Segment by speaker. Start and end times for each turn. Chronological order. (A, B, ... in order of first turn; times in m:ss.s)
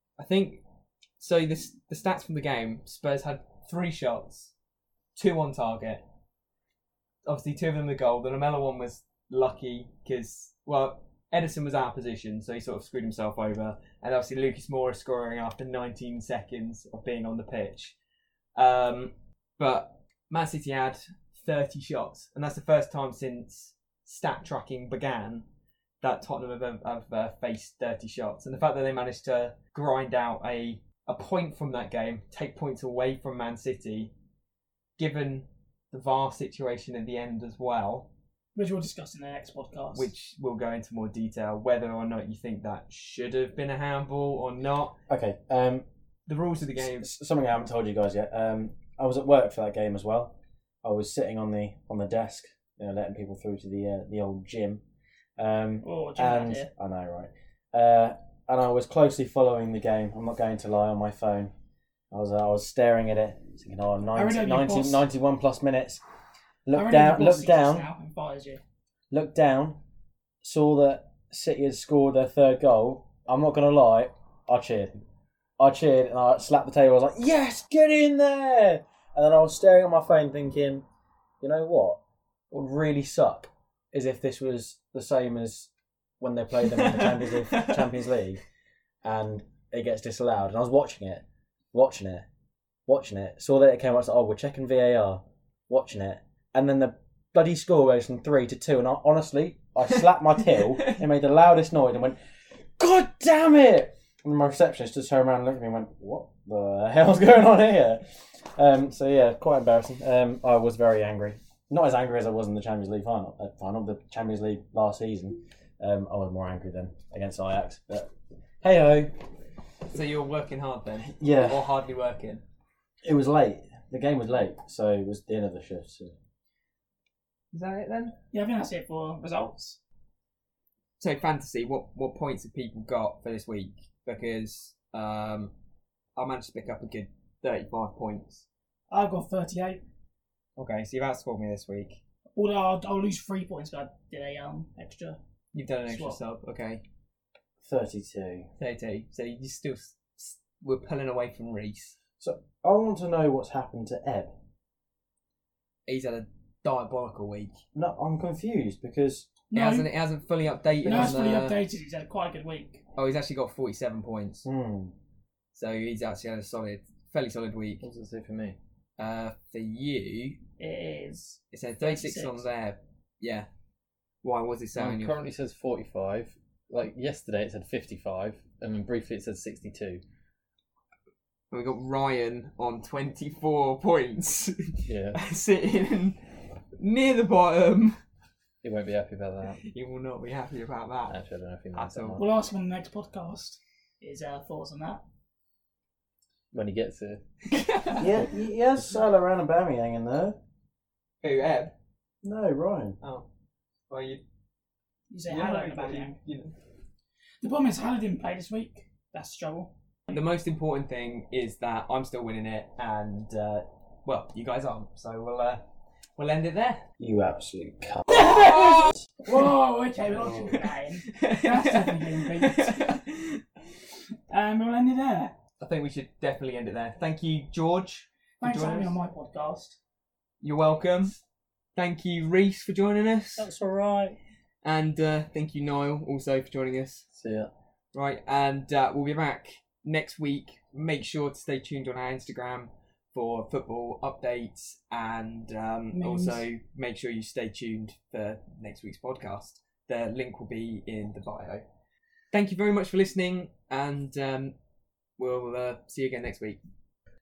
0:00.2-0:00.6 A
0:01.2-0:04.5 A
0:05.2-0:06.0 A
0:07.2-0:18.0 A
0:18.6-0:25.5 A
0:26.0-0:34.1 A
0:35.0-0:38.1 A
0:38.6-0:40.1 B
0:40.0-0:45.0 A
0:45.1-0:45.9 C
0:46.3-0:47.1 A
0:46.8-0:54.8 C
0:55.4-1:01.5 C
0:55.8-0:56.7 B
1:02.1-1:06.0 C
1:04.2-1:05.0 B
1:06.7-1:07.9 C
1:06.7-1:08.6 B
1:09.1-1:09.8 C
1:10.4-1:15.0 C
1:15.6-1:20.8 C
1:21.4-1:22.0 C
1:22.5-1:28.4 C
1:26.7-1:27.8 A
1:29.0-1:32.3 C
1:32.9-1:42.2 C
1:40.7-1:41.0 A
1:42.8-1:58.1 C
1:58.6-1:59.2 C
1:59.9-2:02.4 A
2:01.2-2:01.6 C
2:03.0-2:06.2 C
2:07.5-2:08.2 A
2:08.3-2:09.8 B
2:11.0-2:15.5 A
2:16.2-2:18.5 A
2:18.9-2:19.8 B
2:20.6-2:22.0 A
2:22.4-2:25.2 B
2:25.5-2:26.8 A
2:25.9-2:26.2 B
2:27.6-2:28.5 C
2:28.6-2:32.0 A
2:32.2-2:34.3 C
2:35.9-2:37.6 A
2:37.8-2:39.3 C
2:39.5-2:39.9 B
2:39.5-2:41.6 A
2:40.8-2:42.8 B
2:43.0-2:44.5 A
2:44.4-2:45.0 C
2:45.5-2:47.8 A
2:47.8-2:48.6 D
2:49.0-2:50.4 A
2:50.6-2:52.5 B
2:51.5-2:53.5 A
2:54.2-2:55.2 A
2:54.8-3:00.0 D
3:01.5-3:08.0 A
3:04.9-3:05.2 D
3:08.6-3:09.6 D
3:09.6-3:11.2 A
3:11.1-3:12.3 D
3:11.7-3:12.2 A
3:12.2-3:15.0 B
3:16.5-3:17.2 D
3:17.5-3:18.1 A
3:18.0-3:20.4 C
3:21.2-3:21.7 A
3:22.2-3:23.0 C
3:23.0-3:23.3 A
3:23.9-3:24.2 A
3:25.1-3:26.2 B
3:25.3-3:26.5 A
3:27.4-3:29.7 B
3:30.1-3:35.6 A
3:36.2-3:36.8 A
3:37.0-3:38.7 C
3:38.1-3:43.0 B
3:40.4-3:43.4 A
3:44.3-3:45.4 B
3:45.6-3:49.0 A
3:48.4-3:49.8 B
3:50.4-3:51.2 A
3:51.8-3:53.5 A
3:53.4-3:54.1 C
3:54.6-3:57.1 A
3:57.1-3:57.5 D
3:57.9-4:11.6 A
4:05.9-4:06.5 B
4:12.3-4:14.5 A
4:15.2-4:16.6 A